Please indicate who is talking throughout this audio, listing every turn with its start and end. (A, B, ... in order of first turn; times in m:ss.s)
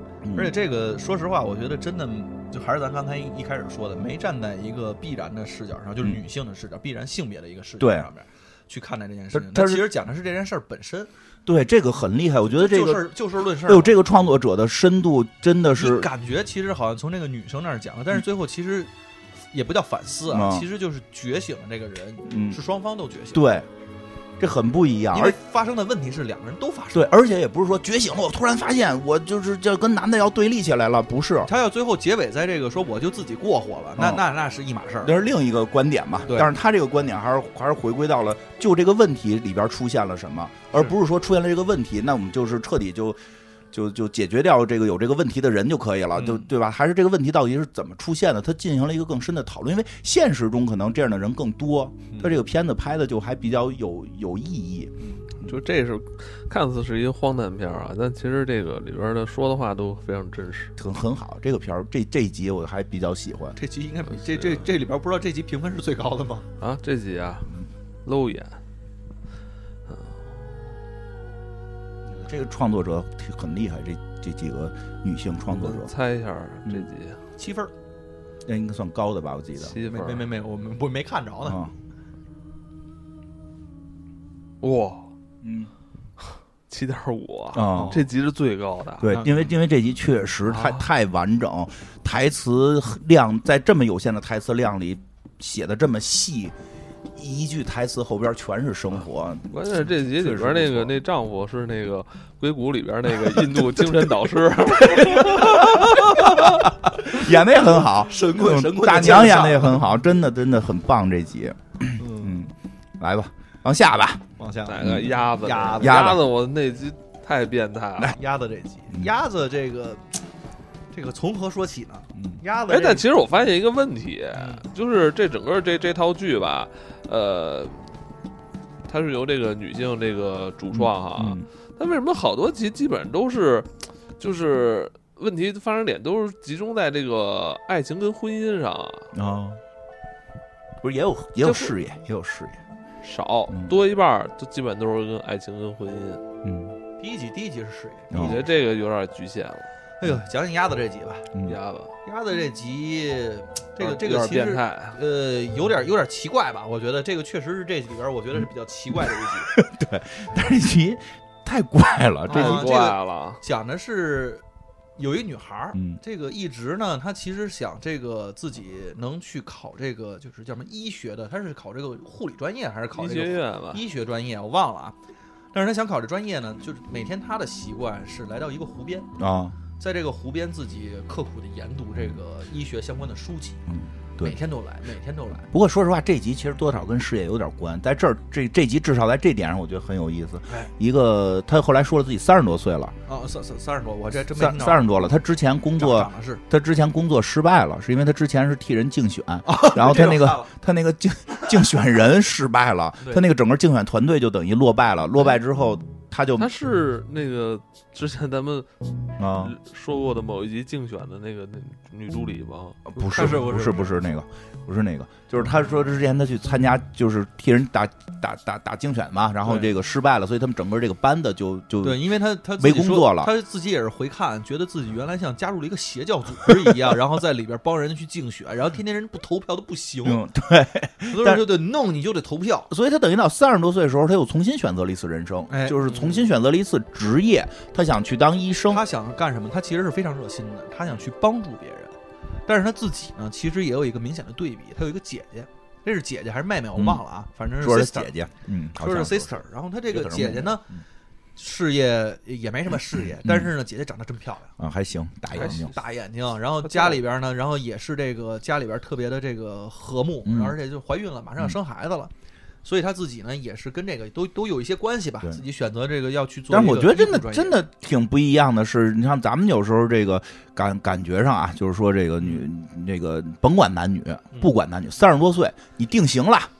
0:00.2-0:00.5 A
0:00.3-0:11.1 B
0:07.8-0:08.1 A
0:09.3-0:09.9 A
0:11.4-0:13.1 A
0:12.4-0:14.0 B
0:13.6-0:16.1 A
0:15.8-0:18.9 B
0:19.5-0:23.4 B
0:20.3-0:20.7 A
0:22.3-0:22.6 A
0:23.3-0:23.7 A
0:24.4-0:25.4 A
0:25.1-0:27.1 B
0:26.9-0:31.5 A
0:31.4-0:35.2 B
0:34.0-0:34.2 A
0:35.0-0:43.2 A
0:43.7-0:55.5 A
0:46.1-0:46.5 B
0:52.1-0:52.4 B
0:55.0-0:55.3 B
0:55.4-1:00.7 C
1:00.8-1:03.6 A
1:03.6-1:06.5 B
1:04.3-1:04.6 C
1:06.6-1:08.6 C
1:09.9-1:10.2 C
1:12.1-1:15.9 A
1:15.5-1:17.2 C
1:17.4-1:17.7 B
1:18.4-1:19.8 A
1:19.6-1:20.2 C
1:19.9-1:21.6 B
1:21.4-1:21.7 A
1:24.6-1:25.1 C
1:25.4-1:25.7 A
1:26.2-1:29.1 C
1:27.5-1:28.0 A
1:27.7-1:28.0 B
1:29.0-1:36.5 A
1:29.1-1:29.4 B
1:30.5-1:30.8 C
1:37.1-1:41.0 A
1:39.5-1:46.6 C
1:44.9-1:49.8 B
1:45.4-1:54.3 A
1:52.0-1:52.5 B
1:54.4-1:56.1 B
1:54.6-1:58.2 C
1:54.8-1:55.1 A
1:55.7-1:56.2 A
1:58.1-2:00.2 B
2:00.9-2:03.0 B
2:02.7-2:07.8 C
2:04.4-2:04.6 B
2:08.9-2:19.1 C
2:10.7-2:11.4 A
2:19.1-2:19.6 A
2:20.8-2:22.6 A
2:21.4-2:21.7 C
2:23.0-2:26.2 C
2:23.5-2:23.7 A
2:26.4-2:26.7 A
2:27.0-2:28.4 B
2:28.1-2:28.4 A
2:28.1-2:29.7 C
2:30.0-2:31.3 B
2:31.4-2:31.9 C
2:32.0-2:39.5 B
2:33.8-2:35.0 C
2:39.5-2:42.7 A
2:42.2-2:44.4 B
2:42.3-2:43.4 C
2:45.0-2:55.0 B
2:53.0-2:53.8 C
2:55.5-2:59.1 B
2:59.2-2:59.6 A
2:59.8-3:03.6 B
3:03.7-3:04.4 A
3:04.2-3:05.5 B
3:05.5-3:12.9 A
3:13.1-3:15.1 B
3:14.3-3:26.5 A
3:15.8-3:16.4 B
3:19.4-3:20.5 B
3:26.4-3:28.7 C
3:29.2-3:29.5 A
3:29.3-3:32.9 C
3:32.9-3:43.3 A
3:33.0-3:34.0 B
3:39.4-3:39.7 B
3:41.8-3:50.2 B
3:46.5-3:46.8 A
3:50.0-3:51.5 A
3:51.1-3:52.7 B
3:52.7-3:58.8 A
3:55.5-3:56.2 B
3:58.7-4:08.1 B
4:06.7-4:07.0 A
4:07.6-4:09.4 A
4:08.8-4:10.6 B
4:09.9-4:10.8 A
4:11.4-4:14.5 B
4:13.2-4:13.5 A
4:14.6-4:15.7 A
4:15.3-4:22.1 B
4:15.4-4:15.7 C
4:20.2-4:20.6 A
4:22.6-4:27.6 B
4:26.5-4:36.5 A